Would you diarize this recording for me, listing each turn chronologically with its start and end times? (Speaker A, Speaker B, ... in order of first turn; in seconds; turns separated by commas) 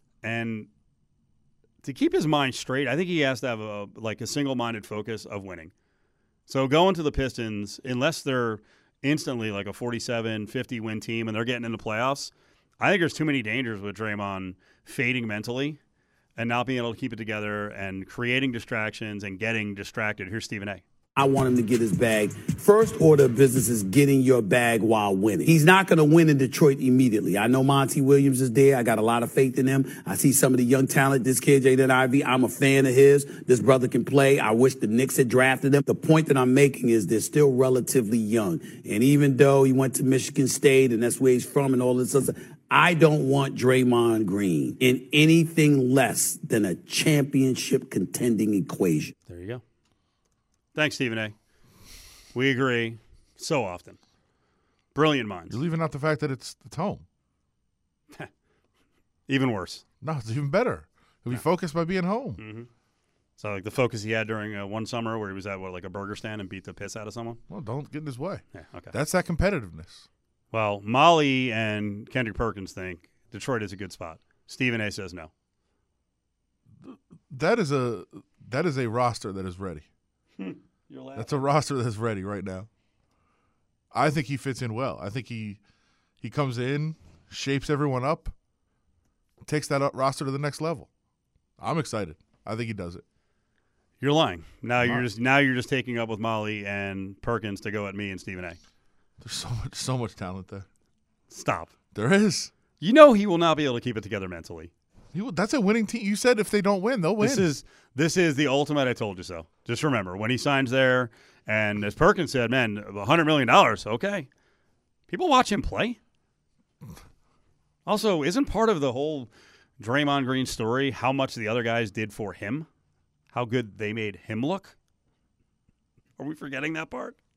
Speaker A: 0.2-0.7, Speaker A: 1.8-5.7, Speaker A: 6.5-15.8, Speaker A: 16.4-20.8, Speaker B: 21.1-49.1, Speaker A: 49.3-49.6, Speaker A: 50.8-51.4, Speaker A: 52.3-54.0, Speaker A: 55.0-55.6, Speaker C: 55.5-57.0, Speaker A: 59.3-59.8, Speaker C: 60.0-62.4, Speaker A: 62.4-62.7, Speaker A: 63.4-67.4, Speaker C: 67.5-70.1, Speaker A: 68.5-68.9, Speaker A: 70.5-75.3, Speaker C: 76.8-79.9, Speaker A: 80.4-81.4, Speaker C: 81.2-82.7, Speaker C: 83.9-85.6, Speaker C: 86.2-88.3, Speaker C: 89.4-90.9, Speaker C: 91.6-93.0, Speaker A: 94.0-98.6, Speaker C: 94.8-95.1, Speaker C: 99.2-100.7, Speaker A: 101.3-101.8, Speaker C: 102.0-102.5, Speaker A: 102.8-104.7, Speaker C: 105.1-107.5, Speaker A: 107.2-114.3, Speaker A: 115.1-116.0, Speaker A: 117.9-122.7, Speaker A: 123.3-124.8, Speaker A: 126.2-127.2